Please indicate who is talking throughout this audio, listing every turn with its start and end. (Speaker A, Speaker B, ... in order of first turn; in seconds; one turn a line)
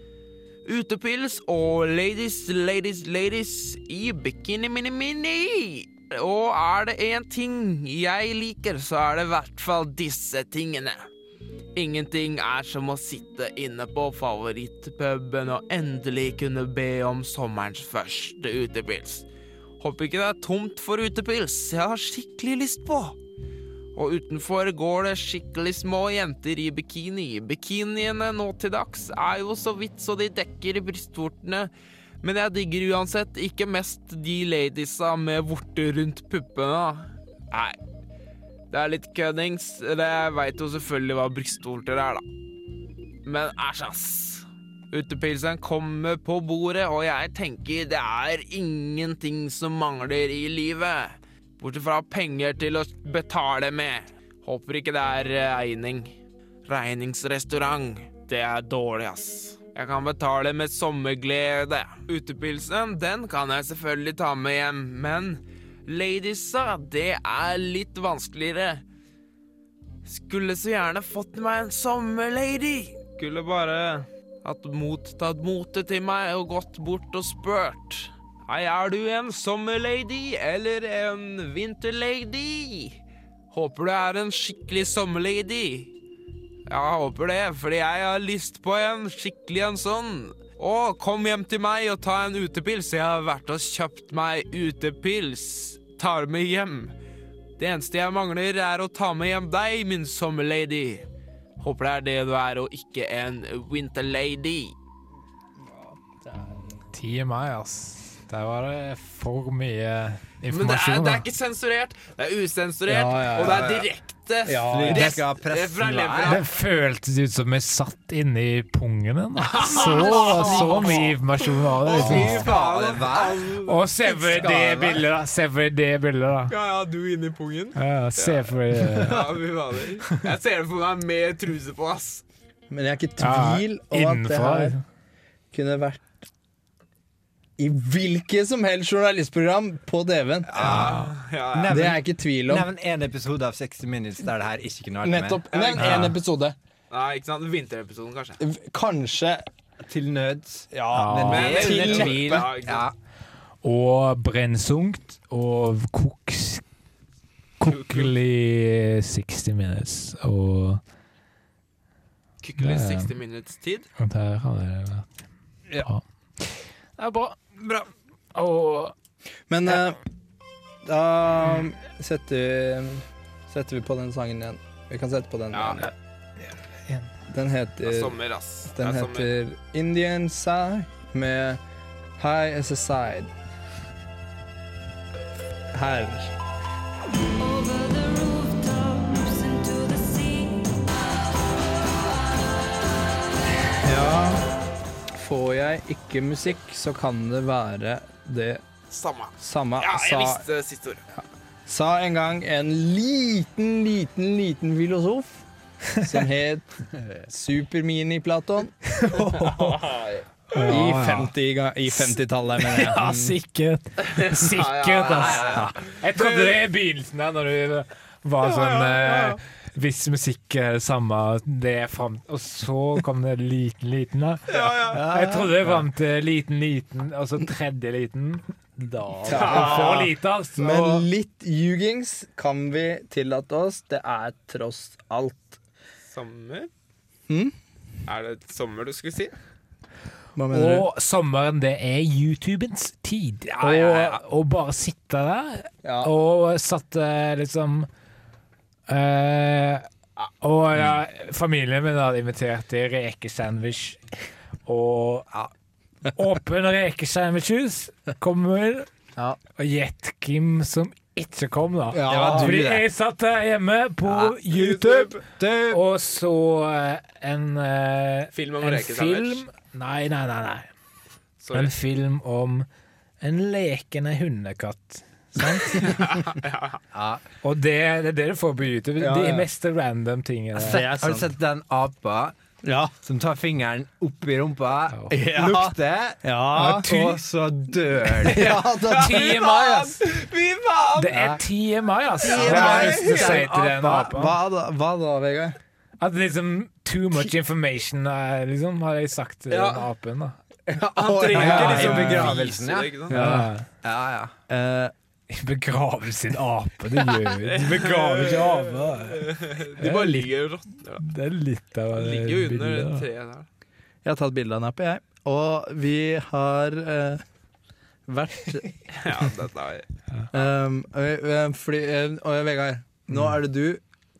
Speaker A: 0.6-11.1
Speaker A: 11.8-19.3
Speaker A: 19.8-23.2
Speaker A: 23.9-31.7
Speaker A: 32.2-37.8
Speaker A: 38.7-42.2
Speaker A: 43.2-56.1
Speaker A: 56.6-68.8
Speaker A: 70.0-83.0
Speaker A: 83.5-85.9
Speaker A: 86.7-96.9
Speaker A: 97.6-101.0
Speaker A: 101.6-104.7
Speaker B: 105.9-106.8
Speaker C: 106.9-111.2
Speaker A: 110.5-116.5
Speaker B: 112.9-113.8
Speaker D: 113.4-113.8
Speaker B: 114.5-115.2
Speaker D: 114.5-116.4
Speaker C: 116.2-122.5
Speaker A: 119.5-123.8
Speaker D: 119.9-121.0
Speaker D: 121.9-125.0
Speaker C: 123.6-126.5
Speaker A: 126.5-132.2
Speaker C: 127.8-129.2
Speaker B: 132.7-134.8
Speaker C: 133.2-134.8
Speaker B: 135.5-136.1
Speaker B: 137.6-140.6
Speaker D: 140.4-146.1
Speaker A: 140.6-141.9
Speaker C: 140.6-141.0
Speaker B: 141.7-142.7
Speaker B: 145.0-146.5
Speaker A: 145.5-146.1
Speaker C: 145.8-146.1
Speaker A: 146.9-148.4
Speaker B: 148.4-149.4
Speaker D: 149.8-152.9
Speaker B: 150.7-152.5
Speaker C: 150.9-151.6
Speaker A: 151.3-152.9
Speaker C: 153.6-156.6
Speaker C: 157.6-160.8
Speaker A: 157.7-158.1
Speaker A: 162.4-163.9
Speaker C: 162.6-163.1
Speaker C: 164.0-165.1
Speaker C: 165.8-167.6
Speaker C: 168.3-168.9
Speaker B: 169.5-170.0
Speaker B: 170.8-175.9
Speaker A: 175.5-175.8
Speaker B: 177.3-178.2
Speaker A: 177.8-179.3
Speaker B: 178.7-181.6
Speaker B: 182.2-183.3
Speaker B: 185.7-186.3
Speaker E: 187.4-190.8
Speaker B: 193.7-194.4
Speaker B: 195.1-198.6
Speaker A: 198.9-201.0
Speaker B: 199.4-200.4
Speaker B: 201.1-205.4
Speaker B: 206.0-209.8
Speaker C: 209.0-209.6
Speaker A: 209.6-210.5
Speaker C: 210.5-211.3
Speaker B: 210.7-213.3
Speaker C: 211.9-231.1
Speaker A: 214.0-216.6
Speaker A: 218.6-219.4
Speaker A: 224.5-225.0
Speaker D: 224.9-225.7
Speaker B: 224.9-225.2
Speaker B: 229.2-235.6
Speaker A: 229.3-229.9
Speaker A: 236.1-236.7
Speaker B: 237.3-237.5
Speaker A: 238.1-239.3
Speaker B: 240.3-240.9
Speaker C: 240.5-247.9
Speaker B: 243.6-244.2
Speaker B: 245.8-246.1
Speaker C: 248.9-249.9
Speaker C: 250.4-254.0
Speaker C: 254.7-255.3
Speaker C: 256.1-258.9
Speaker C: 259.6-270.7
Speaker D: 261.9-262.9
Speaker B: 261.9-262.6
Speaker D: 264.0-264.4
Speaker A: 264.6-265.1
Speaker D: 265.2-265.8
Speaker A: 268.3-269.4
Speaker A: 271.4-271.7
Speaker C: 271.5-272.6
Speaker C: 273.2-276.0
Speaker A: 275.8-276.8
Speaker D: 276.9-277.2
Speaker C: 277.4-280.9
Speaker B: 279.0-279.5
Speaker B: 280.6-281.3
Speaker D: 280.7-282.3
Speaker B: 282.6-282.9
Speaker D: 283.0-288.5
Speaker B: 285.1-287.2
Speaker C: 286.6-286.9
Speaker C: 288.2-290.0
Speaker B: 288.3-289.3
Speaker A: 288.9-291.3
Speaker C: 290.9-294.4
Speaker A: 292.2-293.4
Speaker B: 292.2-295.6
Speaker D: 292.3-293.2
Speaker C: 296.0-300.4
Speaker A: 299.5-299.8
Speaker B: 300.7-302.4
Speaker A: 300.9-303.1
Speaker D: 301.2-303.1
Speaker C: 301.4-302.1
Speaker C: 303.1-303.6
Speaker B: 303.1-303.5
Speaker D: 303.8-304.3
Speaker B: 304.5-304.9
Speaker C: 305.3-310.3
Speaker A: 307.4-311.0
Speaker C: 311.0-313.1
Speaker A: 311.9-313.5
Speaker B: 314.0-317.2
Speaker B: 318.1-318.7
Speaker A: 318.9-319.9
Speaker B: 320.3-323.8